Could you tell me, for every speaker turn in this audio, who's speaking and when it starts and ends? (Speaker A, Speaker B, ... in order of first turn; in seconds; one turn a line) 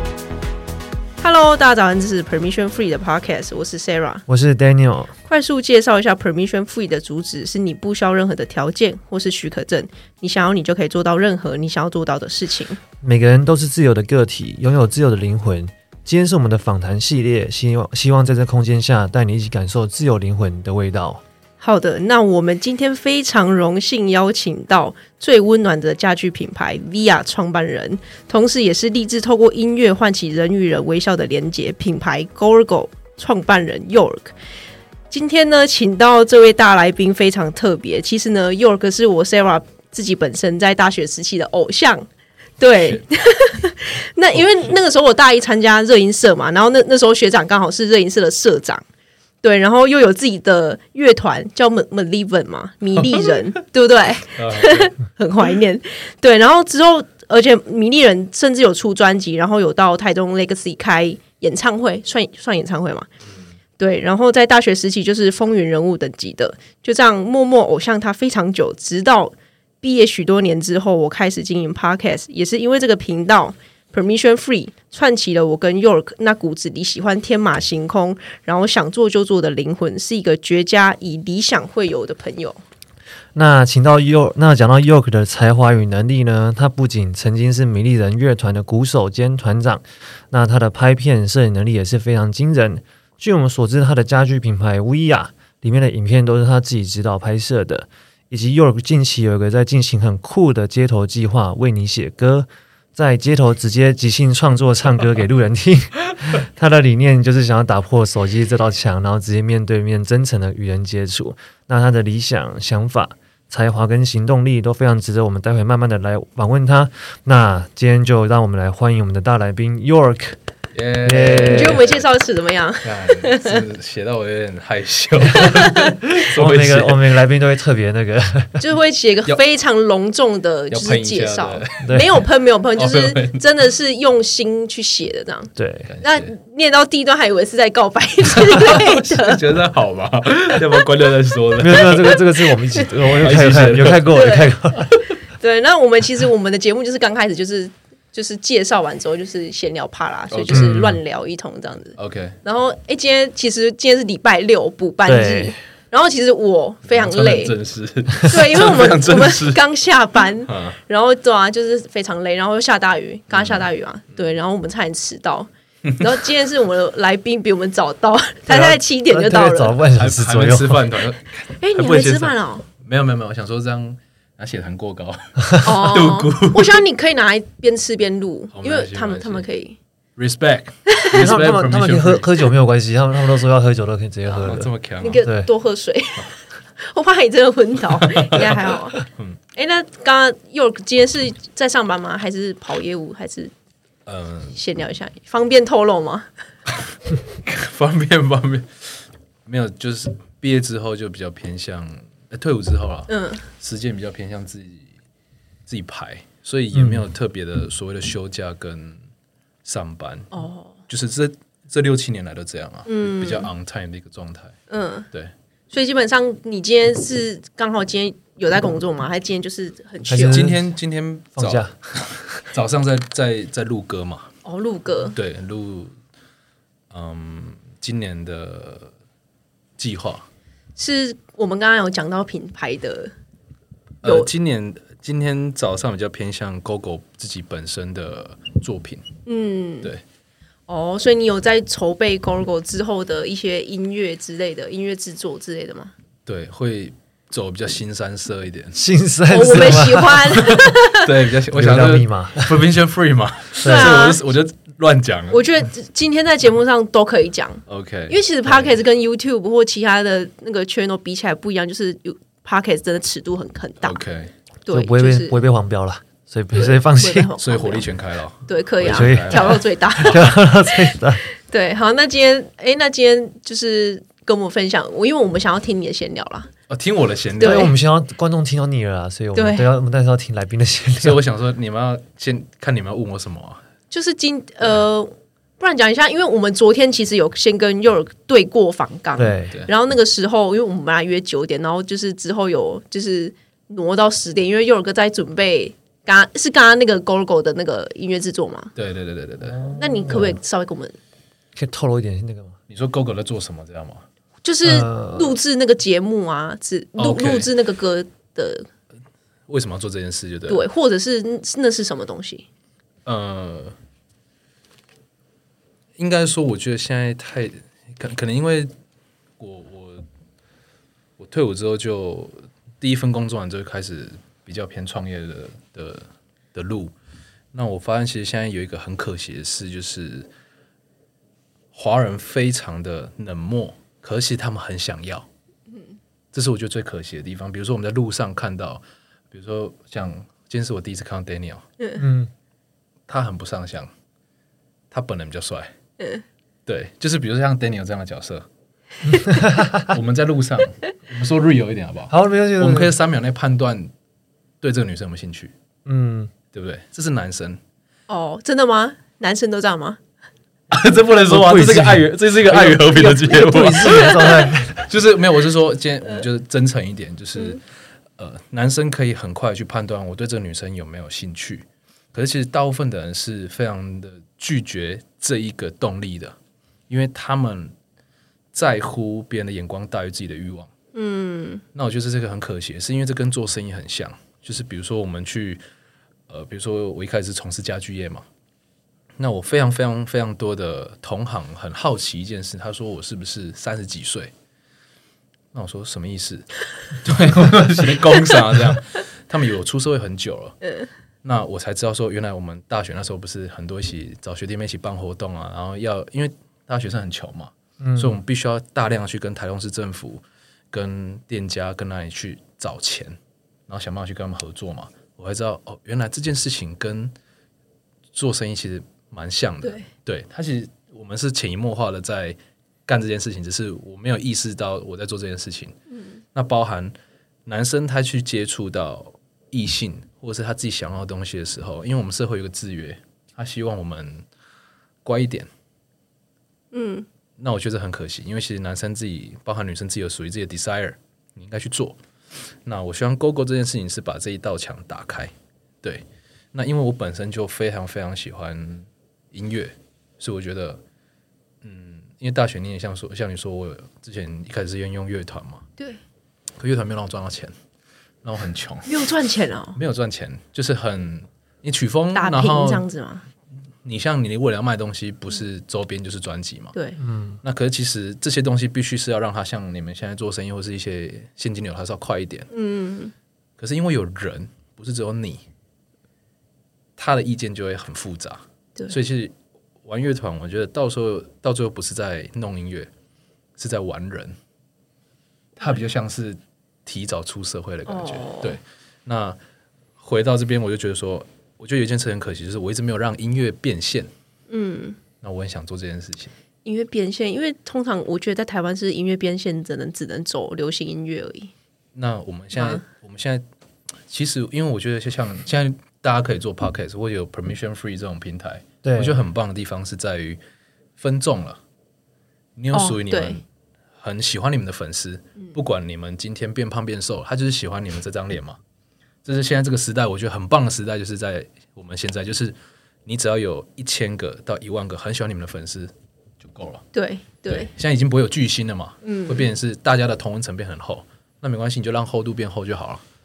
Speaker A: 1.2-4.2
Speaker B: 4.3-5.1
Speaker A: 5.3-12.8
Speaker B: 13.0-21.2
Speaker A: 21.6-34.3
Speaker A: 35.1-42.1
Speaker A: 42.6-48.8
Speaker A: 49.4-63.1
Speaker C: 53.0-53.4
Speaker C: 54.3-54.9
Speaker A: 63.8-82.6
Speaker B: 83.3-120.4
Speaker C: 120.7-122.1
Speaker B: 121.0-121.8
Speaker A: 121.4-123.7
Speaker C: 122.8-127.1
Speaker A: 125.3-125.9
Speaker B: 126.3-128.6
Speaker A: 128.6-139.5
Speaker C: 130.7-132.1
Speaker C: 132.8-133.4
Speaker B: 135.6-135.9
Speaker C: 135.8-136.3
Speaker C: 138.4-142.2
Speaker B: 141.6-145.0
Speaker A: 142.2-143.0
Speaker C: 143.1-144.2
Speaker A: 144.1-144.6
Speaker A: 145.3-157.6
Speaker C: 150.3-150.9
Speaker B: 150.5-151.0
Speaker C: 152.0-152.4
Speaker B: 155.1-155.6
Speaker C: 156.9-159.6
Speaker A: 158.2-169.8
Speaker C: 160.4-160.8
Speaker C: 163.3-163.7
Speaker C: 168.5-168.8
Speaker B: 169.1-170.8
Speaker C: 169.9-176.8
Speaker A: 171.6-172.7
Speaker A: 175.6-179.8
Speaker C: 178.5-179.5
Speaker C: 180.2-182.5
Speaker A: 180.9-181.2
Speaker B: 181.1-185.5
Speaker C: 184.3-185.2
Speaker A: 185.0-189.0
Speaker C: 188.0-189.4
Speaker A: 189.6-193.5
Speaker C: 194.1-194.6
Speaker A: 194.6-196.3
Speaker C: 197.4-204.9
Speaker A: 203.1-203.4
Speaker C: 205.7-209.0
Speaker B: 206.7-207.0
Speaker C: 209.6-210.3
Speaker A: 210.3-210.8
Speaker C: 210.9-214.6
Speaker A: 212.9-213.5
Speaker A: 214.7-215.1
Speaker A: 215.7-220.5
Speaker B: 220.1-220.6
Speaker C: 220.1-224.3
Speaker B: 221.4-221.7
Speaker A: 224.4-225.2
Speaker C: 225.1-225.9
Speaker C: 226.9-228.9
Speaker C: 229.8-230.3
Speaker A: 230.8-233.1
Speaker C: 234.0-239.1
Speaker A: 234.0-234.3
Speaker A: 239.3-239.9
Speaker A: 240.7-245.9
Speaker C: 246.3-248.8
Speaker B: 248.8-250.6
Speaker A: 249.3-251.1
Speaker C: 249.4-255.5
Speaker B: 251.5-252.6
Speaker B: 253.6-254.1
Speaker A: 253.6-254.2
Speaker A: 255.3-264.0
Speaker C: 257.7-258.7
Speaker C: 263.8-264.3
Speaker A: 264.6-265.4
Speaker B: 264.7-267.3
Speaker A: 266.5-267.9
Speaker C: 267.4-270.0
Speaker A: 268.5-276.5
Speaker B: 268.9-271.3
Speaker C: 276.7-277.7
Speaker A: 277.4-277.7
Speaker B: 277.4-281.2
Speaker A: 279.4-279.7
Speaker C: 281.0-283.6
Speaker A: 283.9-298.7
Speaker B: 289.2-289.5
Speaker C: 298.8-299.8
Speaker B: 299.4-300.4
Speaker A: 299.8-301.0
Speaker B: 301.6-302.6
Speaker C: 302.7-304.1
Speaker A: 304.4-308.7
Speaker B: 304.6-305.4
Speaker C: 307.0-307.5
Speaker C: 309.5-310.6
Speaker A: 310.5-312.5
Speaker C: 313.1-313.8
Speaker C: 316.0-318.7
Speaker C: 319.4-320.1
Speaker C: 321.2-326.9
Speaker C: 327.5-330.3
Speaker C: 331.7-335.3
Speaker A: 335.7-336.0
Speaker C: 336.3-341.7
Speaker A: 341.8-342.1
Speaker B: 342.0-342.3
Speaker C: 343.1-343.9
Speaker C: 344.9-345.7
Speaker A: 346.0-346.2
Speaker C: 346.7-348.5
Speaker B: 349.1-349.9
Speaker C: 349.9-353.9
Speaker B: 352.1-352.9
Speaker C: 354.6-355.5
Speaker B: 355.9-356.3
Speaker C: 356.5-357.6
Speaker A: 358.1-360.0
Speaker C: 360.7-367.6
Speaker B: 361.3-364.9
Speaker A: 363.8-364.2
Speaker C: 368.2-376.4
Speaker C: 376.9-377.7
Speaker C: 378.5-380.7
Speaker A: 380.9-381.6
Speaker C: 381.8-385.6
Speaker C: 386.3-388.3
Speaker C: 389.2-394.3
Speaker C: 395.5-400.6
Speaker A: 400.6-400.9
Speaker C: 401.2-413.2
Speaker B: 407.8-408.2
Speaker C: 413.7-417.1
Speaker C: 418.1-425.8
Speaker A: 425.9-426.2
Speaker C: 426.3-426.9
Speaker C: 427.5-434.3
Speaker C: 435.0-435.5
Speaker A: 436.7-437.1
Speaker C: 437.4-442.0
Speaker C: 442.6-450.8
Speaker C: 451.6-455.7
Speaker C: 456.6-457.5
Speaker C: 458.2-459.1
Speaker A: 458.9-459.8
Speaker C: 459.8-462.8
Speaker A: 462.1-463.3
Speaker C: 463.8-466.8
Speaker B: 467.0-467.4
Speaker C: 467.4-472.5
Speaker A: 472.5-473.1
Speaker C: 473.6-475.5
Speaker C: 477.0-482.9
Speaker C: 483.6-484.4
Speaker C: 485.6-489.4
Speaker A: 487.9-488.6
Speaker C: 490.0-494.1
Speaker A: 494.5-495.0
Speaker C: 495.2-496.3
Speaker A: 496.6-501.5
Speaker C: 501.9-503.4
Speaker A: 502.6-502.8
Speaker C: 504.1-510.4
Speaker B: 508.8-509.2
Speaker C: 511.0-511.6
Speaker C: 512.6-513.4
Speaker A: 512.7-513.4
Speaker C: 514.0-518.6
Speaker C: 519.2-526.9
Speaker A: 526.9-527.7
Speaker C: 527.5-533.0
Speaker A: 529.0-529.5